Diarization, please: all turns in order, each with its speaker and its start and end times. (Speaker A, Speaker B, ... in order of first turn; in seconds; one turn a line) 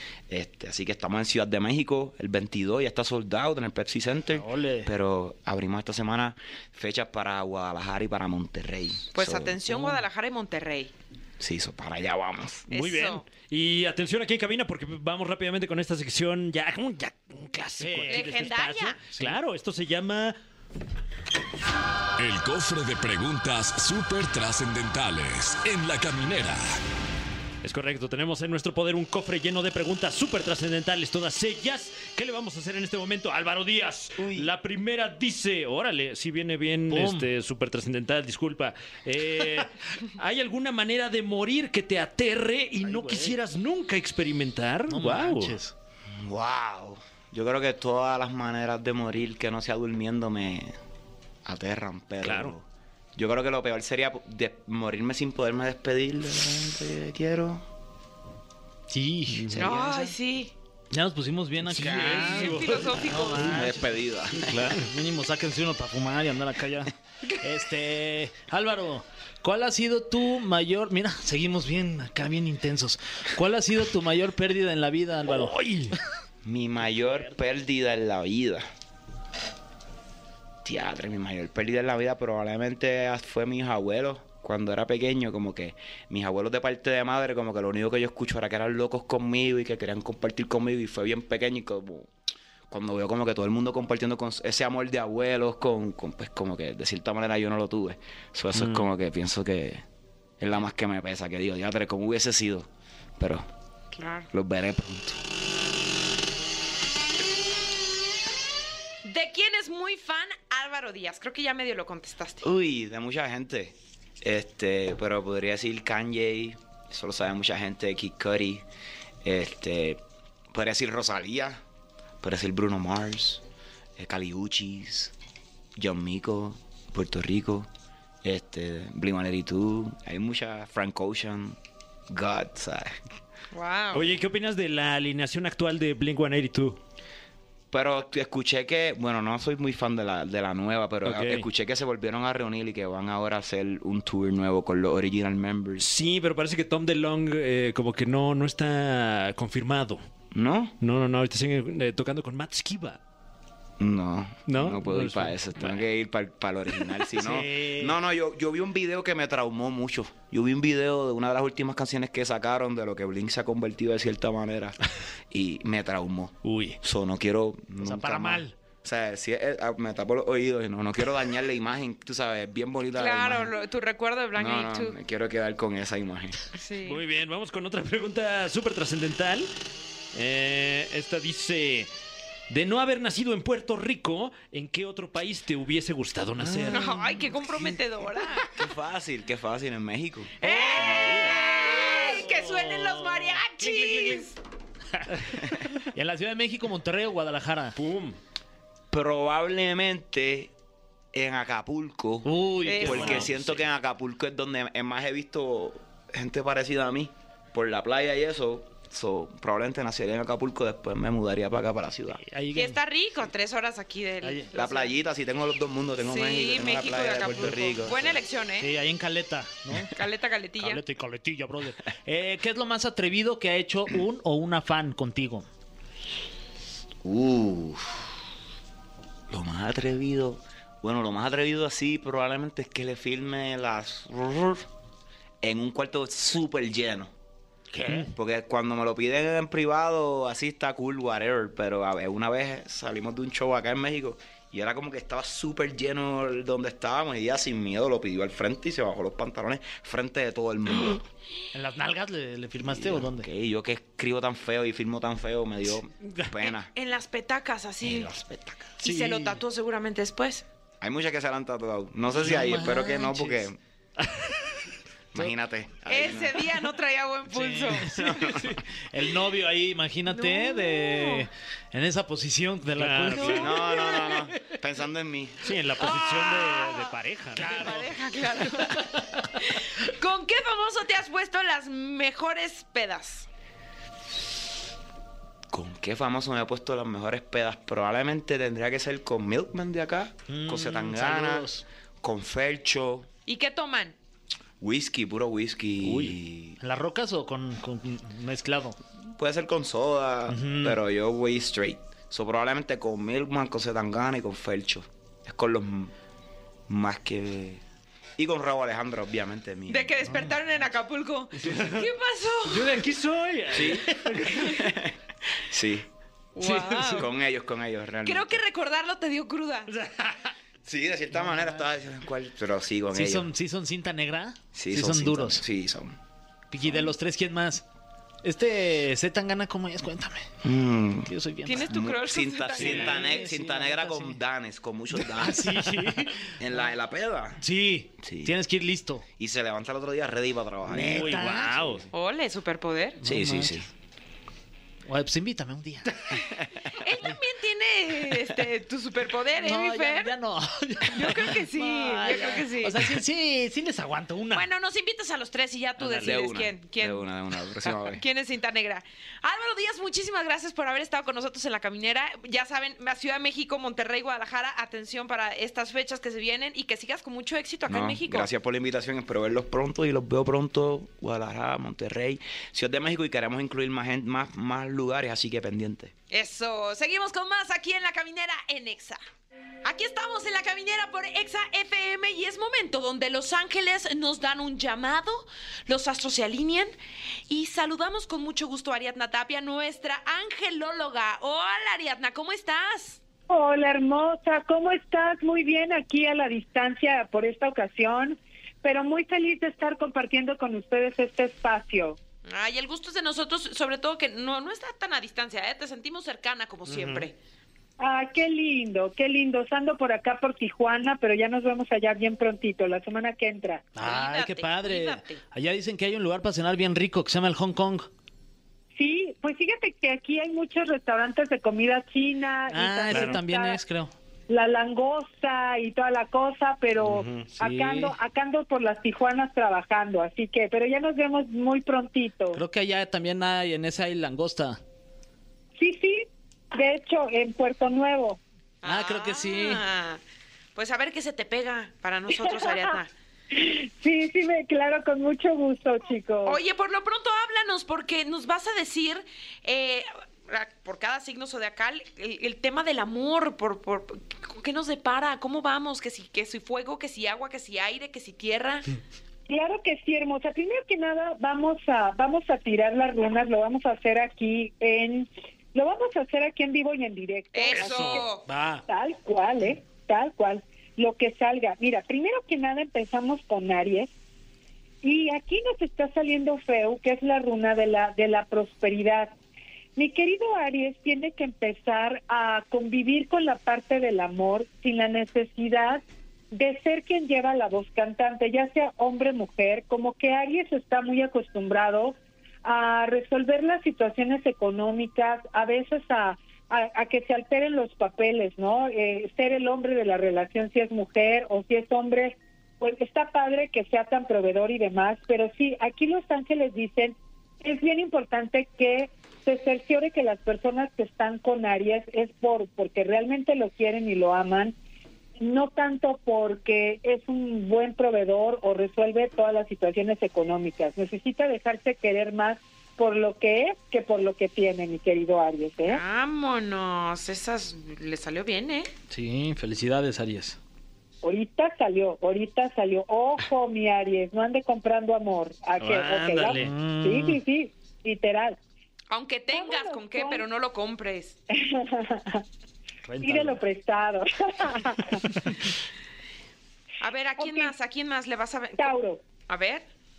Speaker A: 0.3-9.6
Speaker B: 4.3-4.9
Speaker C: 9.1-10.9
Speaker A: 11.4-12.7
Speaker C: 12.7-13.2
Speaker D: 12.7-20.4
Speaker B: 17.8-18.5
Speaker C: 18.1-19.0
Speaker E: 22.2-26.8
Speaker D: 27.6-45.6
Speaker A: 34.2-34.5
Speaker B: 36.9-37.3
Speaker B: 42.8-43.4
Speaker B: 44.9-45.7
Speaker A: 46.1-50.8
Speaker A: 51.4-57.6
Speaker D: 52.2-52.5
Speaker B: 58.9-59.5
Speaker D: 59.4-59.6
Speaker A: 59.5-60.1
Speaker C: 59.5-60.5
Speaker B: 60.9-75.6
Speaker D: 61.7-62.9
Speaker A: 61.9-62.2
Speaker C: 61.9-63.6
Speaker A: 63.4-64.8
Speaker D: 75.5-75.9
Speaker A: 76.4-78.7
Speaker A: 80.6-92.1
Speaker A: 92.7-99.8
Speaker D: 98.6-98.8
Speaker A: 100.4-103.5
Speaker C: 103.9-104.3
Speaker A: 104.3-105.2
Speaker C: 109.0-112.5
Speaker A: 112.4-118.6
Speaker A: 119.2-121.6
Speaker A: 122.2-123.4
Speaker A: 124.0-125.1
Speaker A: 125.8-127.7
Speaker A: 128.2-131.6
Speaker A: 132.1-133.0
Speaker C: 133.5-134.1
Speaker D: 133.9-136.8
Speaker A: 137.7-145.9
Speaker D: 141.0-141.4
Speaker D: 145.8-150.0
Speaker A: 150.3-150.8
Speaker D: 150.8-153.0
Speaker A: 153.8-164.8
Speaker D: 154.5-155.8
Speaker B: 157.2-157.9
Speaker A: 165.3-173.5
Speaker D: 166.4-166.8
Speaker B: 167.8-168.5
Speaker C: 172.9-174.9
Speaker A: 174.3-176.4
Speaker C: 176.5-177.0
Speaker D: 176.8-179.5
Speaker D: 180.1-181.9
Speaker D: 182.5-187.1
Speaker A: 186.4-186.9
Speaker C: 186.7-188.5
Speaker A: 188.5-191.3
Speaker C: 190.4-194.3
Speaker D: 190.8-191.4
Speaker D: 193.6-194.2
Speaker D: 195.1-195.4
Speaker B: 195.9-197.8
Speaker D: 197.7-198.2
Speaker A: 198.9-200.5
Speaker A: 201.1-212.2
Speaker B: 202.2-203.3
Speaker C: 202.6-203.2
Speaker D: 203.0-203.4
Speaker B: 212.2-212.8
Speaker C: 212.5-214.9
Speaker B: 214.2-214.5
Speaker A: 214.5-218.2
Speaker C: 216.0-218.7
Speaker B: 218.6-219.9
Speaker C: 219.9-220.8
Speaker B: 220.6-225.5
Speaker A: 227.0-228.0
Speaker A: 229.3-234.7
Speaker A: 235.4-237.1
Speaker B: 237.7-238.1
Speaker A: 237.9-251.0
Speaker B: 251.5-253.3
Speaker A: 252.6-256.7
Speaker C: 256.4-258.1
Speaker A: 257.8-258.8
Speaker C: 258.8-260.4
Speaker B: 258.8-259.3
Speaker A: 260.8-263.6
Speaker B: 262.1-263.5
Speaker A: 265.1-266.5
Speaker C: 265.9-268.2
Speaker B: 267.3-273.8
Speaker A: 267.9-268.5
Speaker C: 270.1-271.3
Speaker D: 272.8-273.8
Speaker C: 273.2-273.8
Speaker A: 273.2-275.6
Speaker D: 275.4-277.9
Speaker C: 275.8-283.3
Speaker B: 277.4-277.8
Speaker A: 285.5-293.1
Speaker B: 290.3-291.6
Speaker C: 293.2-293.9
Speaker A: 294.6-296.6
Speaker B: 296.6-298.8
Speaker A: 299.0-305.9
Speaker B: 300.3-300.8
Speaker A: 306.7-307.6
Speaker A: 308.2-309.9
Speaker C: 309.7-312.8
Speaker D: 311.4-311.9
Speaker D: 312.4-314.6
Speaker A: 313.5-315.9
Speaker C: 316.3-317.1
Speaker D: 316.4-317.0
Speaker A: 316.9-318.4
Speaker C: 318.0-319.7
Speaker D: 319.7-320.3
Speaker A: 320.6-323.3
Speaker B: 322.9-325.4
Speaker A: 324.5-326.0
Speaker B: 326.5-327.6
Speaker A: 326.6-326.9
Speaker B: 328.2-330.3
Speaker A: 330.4-335.8
Speaker B: 331.1-331.7
Speaker C: 331.4-333.2
Speaker B: 332.6-334.2
Speaker B: 335.0-336.3
Speaker A: 336.4-337.4
Speaker B: 337.4-339.0
Speaker A: 338.0-338.4
Speaker A: 339.2-341.3
Speaker B: 340.7-341.8
Speaker D: 340.9-341.9
Speaker C: 341.9-343.0
Speaker B: 343.0-343.6
Speaker A: 343.0-343.7
Speaker B: 344.9-346.1
Speaker A: 346.4-346.7
Speaker C: 346.7-350.1
Speaker B: 349.4-354.5
Speaker C: 350.9-352.8
Speaker C: 354.3-357.1
Speaker D: 355.8-356.2
Speaker A: 356.0-358.0
Speaker C: 357.6-368.3
Speaker A: 367.7-375.9
Speaker C: 376.1-379.0
Speaker C: 379.6-386.7
Speaker C: 387.3-393.0
Speaker F: 393.3-402.0
Speaker C: 402.2-407.1
Speaker D: 406.7-407.1
Speaker F: 407.8-413.7
Speaker B: 413.8-417.9
Speaker C: 413.8-415.2
Speaker F: 418.8-423.6
Speaker B: 422.5-423.9
Speaker D: 422.9-423.2
Speaker F: 424.3-432.4
Speaker D: 426.8-427.3
Speaker B: 427.4-427.9
Speaker B: 432.3-434.6
Speaker F: 435.6-438.2
Speaker C: 438.6-440.0
Speaker B: 438.6-439.6
Speaker C: 440.5-442.9
Speaker F: 442.2-442.7
Speaker F: 443.3-446.4
Speaker C: 446.2-458.7
Speaker F: 459.3-468.1
Speaker C: 467.3-468.2
Speaker D: 467.5-468.1
Speaker B: 468.2-468.6
Speaker F: 468.7-473.9
Speaker F: 474.8-479.1
Speaker F: 479.8-514.5
Speaker F: 515.2-525.8
Speaker C: 525.6-528.7
Speaker B: 528.9-530.4
Speaker F: 531.0-538.4
Speaker D: 535.6-536.5
Speaker B: 536.3-537.2
Speaker C: 538.9-541.2
Speaker F: 539.3-540.2
Speaker F: 541.3-542.2
Speaker B: 542.8-543.4
Speaker F: 543.0-545.1
Speaker C: 546.8-548.7
Speaker F: 547.2-547.5
Speaker F: 548.6-549.0
Speaker C: 549.3-549.6